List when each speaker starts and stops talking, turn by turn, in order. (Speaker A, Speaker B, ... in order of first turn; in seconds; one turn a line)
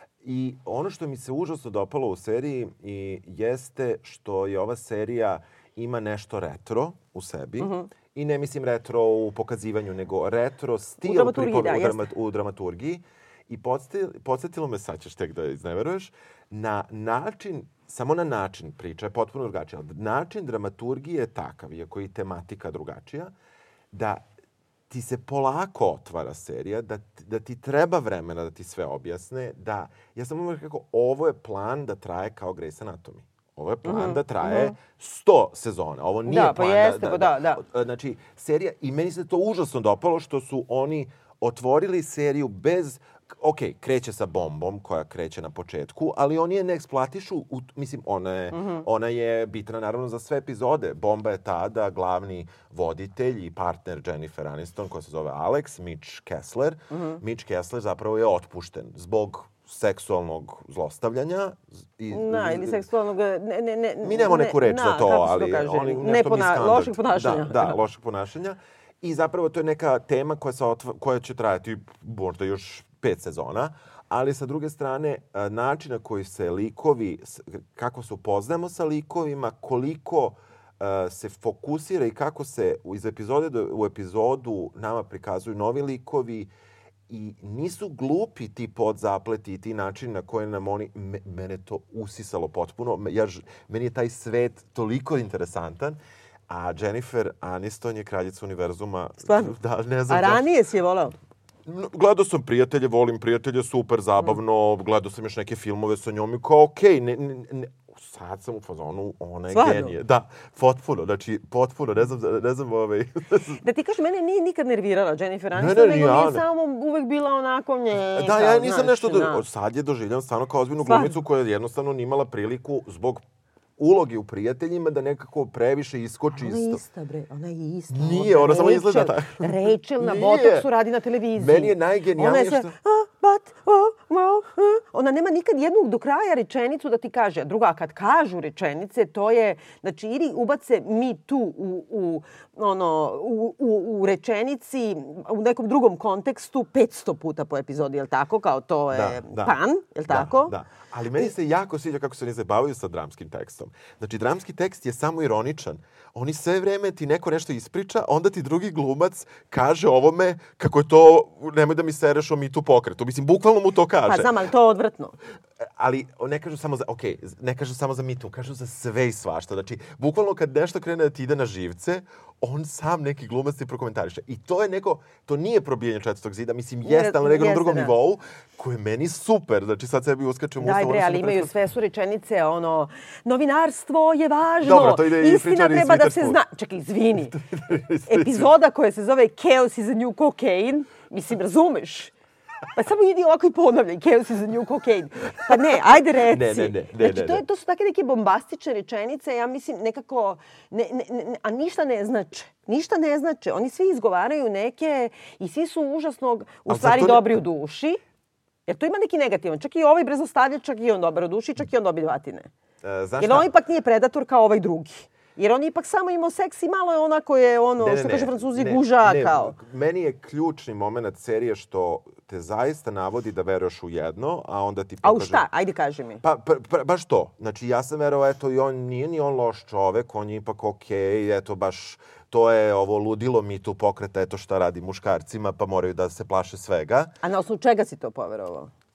Speaker A: 0.2-23.3
Speaker B: 7.6-7.9
Speaker B: 11.0-12.0
Speaker A: 23.9-24.2
Speaker A: 24.9-62.8
Speaker B: 33.8-34.8
Speaker B: 36.3-37.6
Speaker B: 48.5-48.9
Speaker B: 56.9-57.2
Speaker B: 62.1-67.8
Speaker A: 64.0-86.5
Speaker A: 87.1-100.5
Speaker B: 99.2-99.5
Speaker B: 100.1-101.2
Speaker A: 101.7-113.6
Speaker B: 109.5-109.9
Speaker B: 113.6-119.4
Speaker A: 115.5-116.4
Speaker A: 118.2-123.2
Speaker B: 120.8-121.2
Speaker A: 123.8-126.8
Speaker B: 126.3-150.5
Speaker A: 127.9-130.7
Speaker A: 131.4-132.7
Speaker A: 148.9-149.6
Speaker A: 150.1-164.5
Speaker B: 164.1-165.2
Speaker A: 165.6-181.5
Speaker B: 176.8-177.9
Speaker B: 180.6-187.3
Speaker A: 184.6-186.4
Speaker A: 187.2-188.5
Speaker B: 188.1-192.1
Speaker B: 192.7-208.0
Speaker A: 196.2-197.4
Speaker A: 206.7-207.4
Speaker B: 208.7-212.5
Speaker A: 212.8-213.5
Speaker B: 213.2-219.6
Speaker A: 217.8-225.5
Speaker B: 225.0-226.2
Speaker A: 226.2-237.1
Speaker B: 237.2-238.7